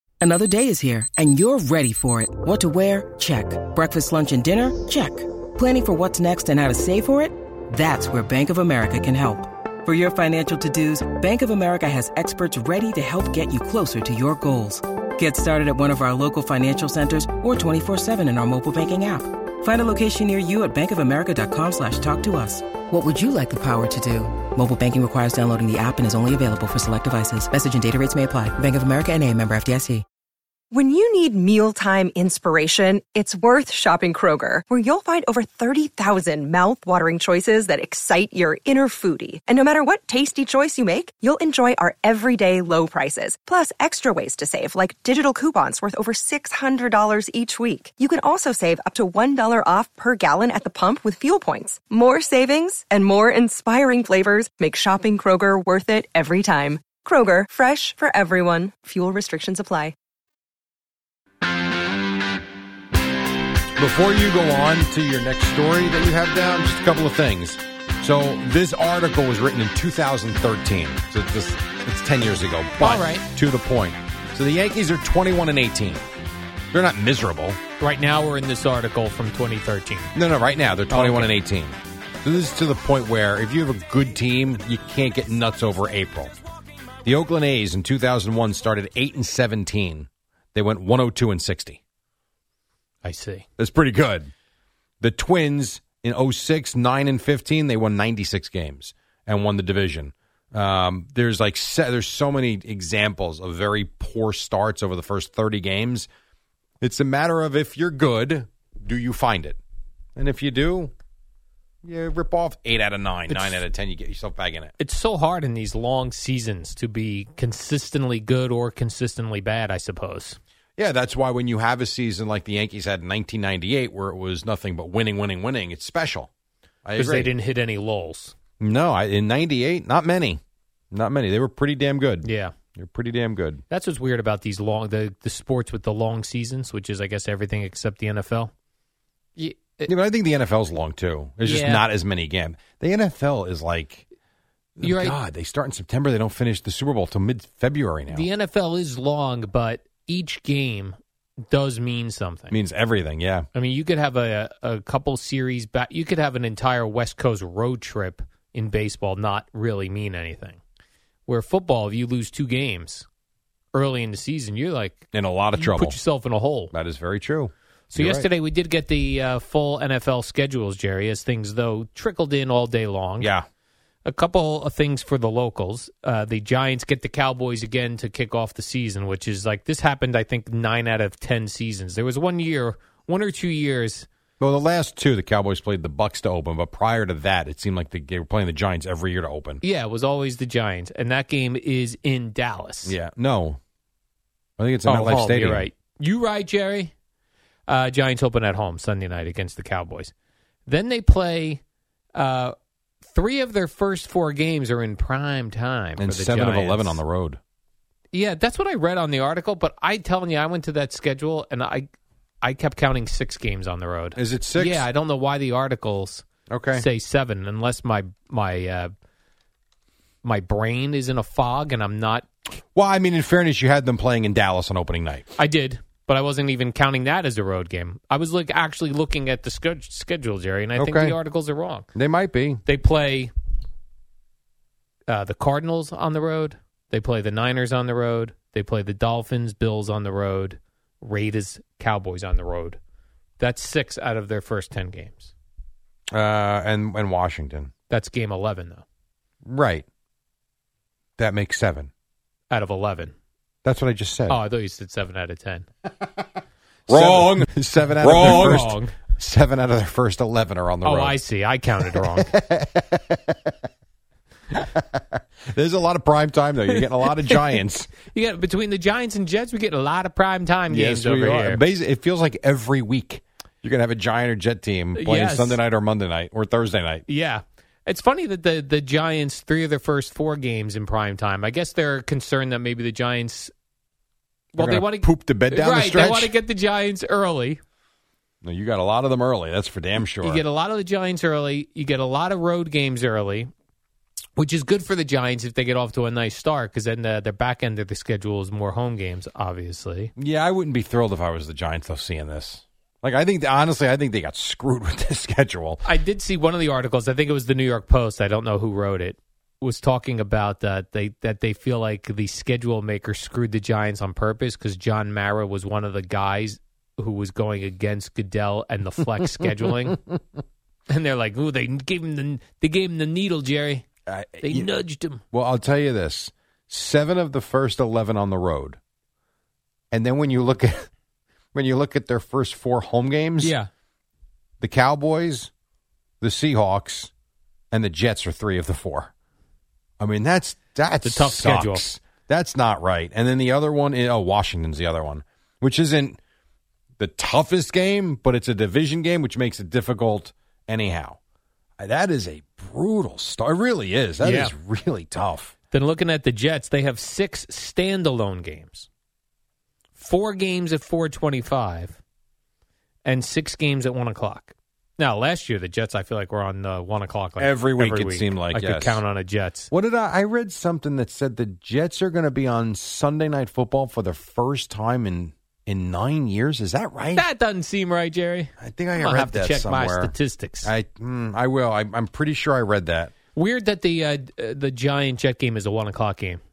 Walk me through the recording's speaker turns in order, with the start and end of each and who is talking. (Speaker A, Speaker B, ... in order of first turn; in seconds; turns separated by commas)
Speaker A: 0.2-30.0, Speaker B: 30.7-60.0, Speaker C: 63.8-76.0, Speaker D: 72.8-73.2, Speaker C: 76.7-77.6, Speaker D: 77.8-80.1, Speaker C: 80.1-86.3, Speaker D: 80.9-81.3, Speaker C: 87.0-91.8, Speaker D: 93.0-93.5, Speaker C: 93.6-94.3, Speaker C: 95.0-106.1, Speaker C: 106.8-109.6, Speaker C: 110.2-110.9, Speaker C: 111.8-114.7, Speaker D: 113.3-113.6, Speaker D: 114.8-120.4, Speaker C: 120.8-126.3, Speaker C: 126.8-127.3, Speaker D: 127.0-128.3, Speaker C: 128.6-133.6, Speaker D: 132.2-132.6, Speaker D: 133.7-138.5, Speaker D: 139.4-139.9, Speaker C: 139.9-144.1, Speaker D: 141.4-141.9, Speaker C: 144.8-148.3, Speaker D: 144.8-145.2, Speaker D: 148.1-151.0, Speaker D: 151.5-152.6, Speaker C: 152.5-153.5, Speaker D: 153.6-160.6, Speaker D: 161.3-163.1, Speaker D: 163.7-166.7, Speaker C: 165.1-166.0, Speaker C: 166.7-168.3, Speaker D: 167.9-173.3, Speaker C: 173.2-173.5, Speaker D: 174.1-184.1, Speaker C: 184.4-189.6, Speaker D: 189.6-193.0, Speaker C: 192.8-193.6, Speaker C: 194.6-195.7, Speaker D: 194.9-196.9, Speaker D: 197.7-200.1, Speaker D: 200.7-201.6, Speaker D: 202.2-207.0, Speaker C: 206.0-207.4, Speaker D: 208.1-211.9, Speaker D: 212.4-218.9, Speaker C: 214.2-214.8, Speaker C: 216.5-216.9, Speaker D: 220.2-222.3, Speaker C: 222.7-225.3, Speaker D: 225.4-231.9, Speaker C: 230.8-231.2, Speaker C: 231.9-232.6, Speaker D: 232.7-233.3, Speaker D: 235.1-242.8, Speaker D: 243.4-245.3, Speaker C: 246.1-247.7, Speaker D: 247.9-248.8, Speaker C: 249.4-249.9, Speaker C: 251.2-251.9, Speaker D: 252.5-253.2, Speaker C: 253.6-254.4, Speaker D: 254.3-255.7, Speaker C: 256.9-261.2, Speaker D: 256.9-259.0, Speaker D: 260.8-262.3, Speaker C: 261.9-263.5, Speaker C: 264.5-267.9, Speaker D: 266.7-271.6, Speaker C: 270.7-277.1, Speaker D: 274.9-275.6, Speaker D: 277.1-283.5, Speaker D: 284.5-287.6, Speaker C: 284.6-286.3, Speaker C: 288.4-290.4, Speaker D: 290.2-293.5, Speaker D: 294.4-300.1, Speaker C: 300.2-305.8, Speaker D: 305.9-320.0, Speaker D: 320.9-323.9, Speaker C: 324.1-324.7, Speaker D: 324.4-325.2, Speaker C: 325.3-328.8, Speaker C: 329.9-330.9, Speaker C: 331.5-333.6, Speaker D: 333.4-333.7, Speaker C: 334.6-335.5, Speaker C: 336.2-337.1, Speaker C: 337.7-339.1, Speaker C: 340.0-346.2, Speaker D: 341.0-341.9, Speaker C: 347.0-351.2, Speaker C: 351.8-355.5, Speaker D: 354.2-354.5, Speaker D: 355.7-358.9, Speaker D: 360.0-362.0, Speaker D: 363.1-369.7, Speaker C: 367.4-369.0, Speaker C: 369.7-377.2, Speaker D: 377.1-380.7, Speaker C: 378.6-383.1, Speaker D: 383.4-386.4